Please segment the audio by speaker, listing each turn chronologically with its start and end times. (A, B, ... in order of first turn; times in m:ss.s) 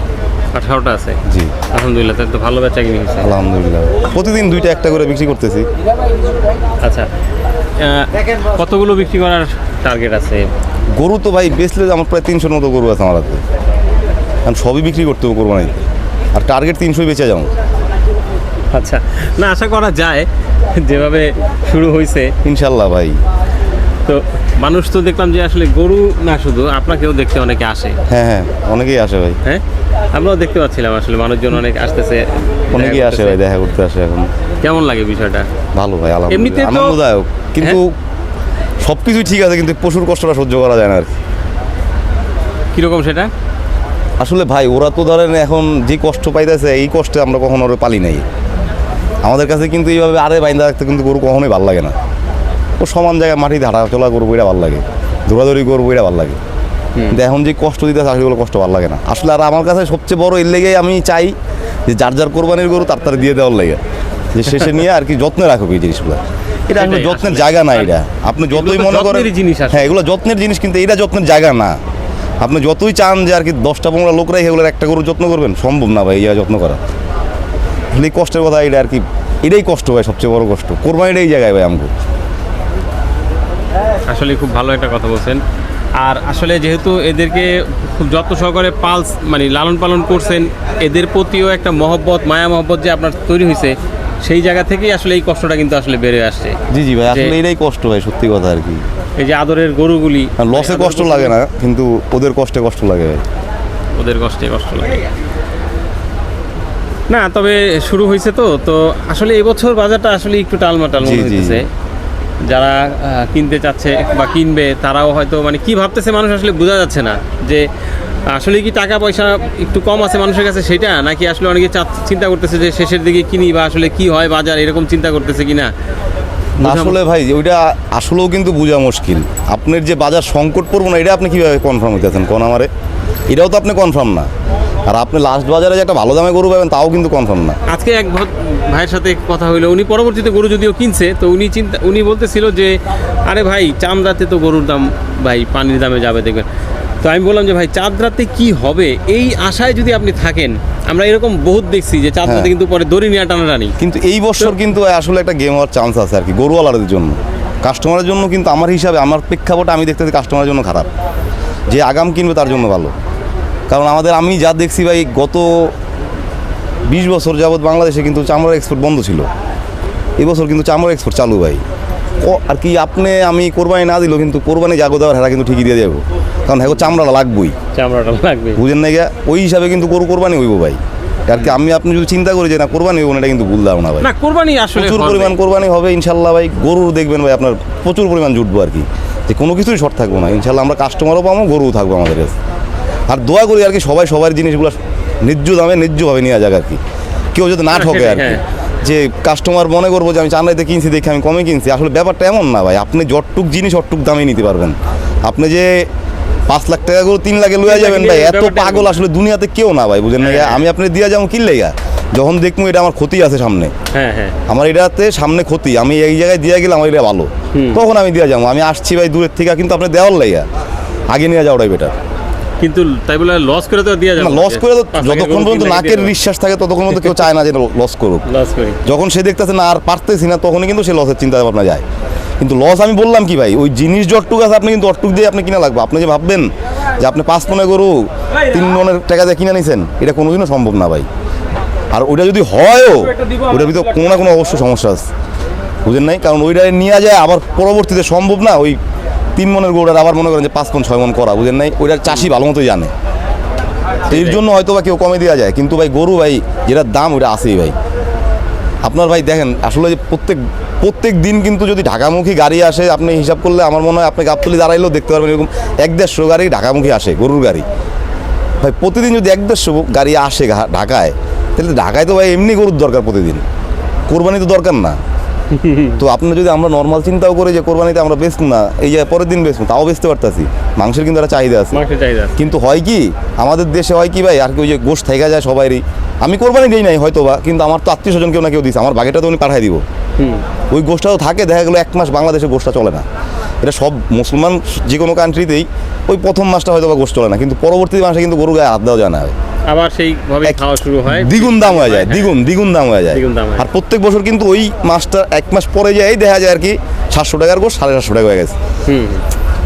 0:00.5-0:01.2 A
0:01.3-0:01.5 B
0:01.7-0:03.3 A
0:03.2-0:05.7 B
0:06.8-0:07.1 A
0:07.8-0:10.5 A
0:11.0-0:13.4 B
0:14.4-0:17.5 B
0:18.7-0:22.3 A
0:22.4-0:23.2 B
0:24.0-0:28.0 A
0:28.1-0:29.4 B
0:29.4-0:33.4 A
0:32.7-0:34.3 B
0:34.6-0:35.5 A
0:35.8-0:37.9 B
0:36.3-0:37.0 A
0:38.8-0:41.2 B
0:42.8-0:43.3 A
0:44.2-0:48.2 B
0:49.2-0:52.0 B
0:52.8-0:56.4 B
0:57.0-0:57.2 A
0:57.1-1:01.4 B
1:01.9-1:03.8 B
1:04.3-1:11.8 B
1:06.7-1:07.9 A
1:08.5-1:09.9 A
1:12.4-1:16.8 B
1:17.9-1:21.9 B
1:24.1-1:25.4 A
1:26.0-1:36.6 A
1:36.7-1:38.8 B
1:37.1-1:37.4 A
1:39.2-1:41.4 A
1:40.4-1:43.2 B
1:44.0-1:45.0 A
1:47.1-1:51.7 A
1:51.0-1:51.6 B
1:52.4-1:57.7 A
1:58.3-2:05.7 A
2:06.6-2:07.0 A
2:06.6-2:12.7 B
2:13.3-2:14.3 B
2:14.9-2:17.6 B
2:17.7-2:26.5 A
2:27.0-2:33.7 A
2:32.2-2:32.5 B
2:33.8-2:40.9 B
2:41.7-2:42.9 B
2:43.7-2:45.8 B
2:46.9-2:49.3 B
2:50.2-2:51.6 B
2:52.2-2:57.6 B
2:57.7-2:58.6 A
2:58.6-3:04.1 B
3:04.0-3:05.4 A
3:04.8-3:12.4 B
3:13.1-3:16.8 B
3:17.3-3:25.9 B
3:17.7-3:18.4 A
3:26.5-3:33.7 B
3:27.6-3:28.9 A
3:30.2-3:30.6 A
3:33.9-3:34.4 A
3:34.5-3:40.5 B
3:37.5-3:37.8 A
3:41.1-3:42.0 B
3:42.6-3:46.1 A
3:44.2-3:48.2 B
3:48.3-3:48.8 A
3:48.8-3:51.8 B
3:52.4-4:01.1 B
4:01.9-4:05.1 B
4:03.2-4:03.6 A
4:05.9-4:08.8 B
4:09.4-4:12.9 B
4:14.1-4:14.4 A
4:14.1-4:17.8 B
4:18.8-4:27.7 B
4:28.6-4:33.4 B
4:34.1-4:35.0 B
4:35.5-4:36.0 A
4:36.0-4:41.8 B
4:41.7-4:42.4 A
4:42.4-4:49.8 B
4:50.2-4:50.4 A
4:50.7-4:53.1 B
4:53.6-4:59.3 B
4:59.7-5:02.3 A
5:00.4-5:08.6 B
5:03.1-5:03.6 A
5:08.9-5:09.2 A